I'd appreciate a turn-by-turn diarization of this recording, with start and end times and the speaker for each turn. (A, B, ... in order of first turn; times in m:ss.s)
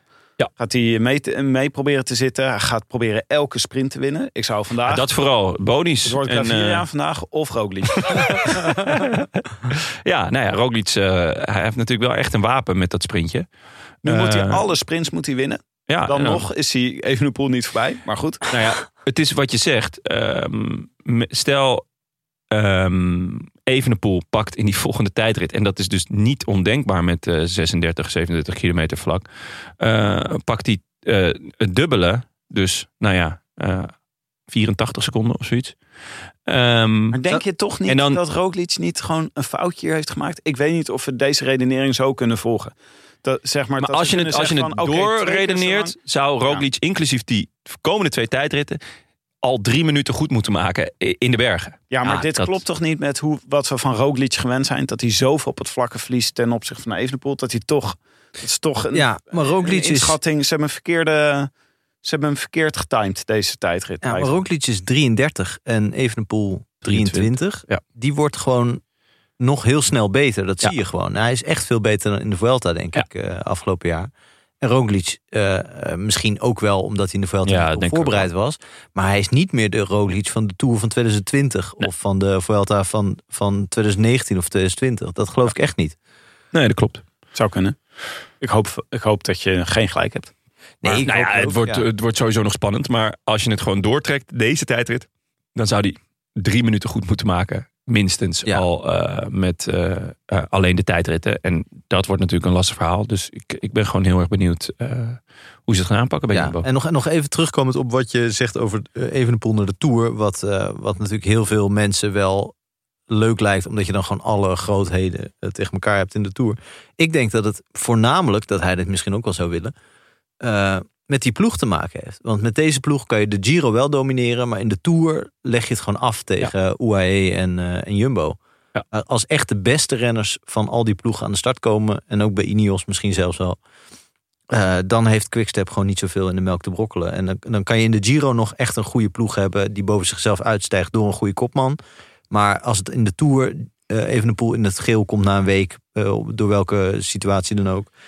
0:00.6-0:05.0 A
0:04.9-0:06.8 B
0:06.0-0:08.8 A
0:08.1-0:13.4 B
0:14.0-0:14.6 B
0:14.0-0:18.5 A
0:15.9-0:16.4 B
0:18.5-0:21.8 B
0:22.5-0:29.2 B
0:29.8-0:33.9 B
0:34.5-0:35.8 B
0:36.5-0:37.2 B
0:37.1-0:45.9 A
0:37.9-0:38.2 B
0:43.8-0:48.8 B
0:49.4-0:52.6 B
0:51.9-1:01.5 A
0:58.9-1:00.2 C
1:02.0-1:04.4 A
1:04.0-1:08.8 C
1:06.8-1:07.8 B
1:09.4-1:14.1 C
1:14.6-1:26.0 C
1:17.4-1:18.3 B
1:26.5-1:27.0 B
1:27.3-1:27.8 A
1:28.4-1:30.3 A
1:30.8-1:31.8 C
1:30.8-1:46.6 B
1:46.3-1:52.5 C
1:53.1-1:59.7 C
2:00.4-2:08.4 C
2:08.9-2:13.6 C
2:14.5-2:21.8 C
2:22.3-2:27.9 C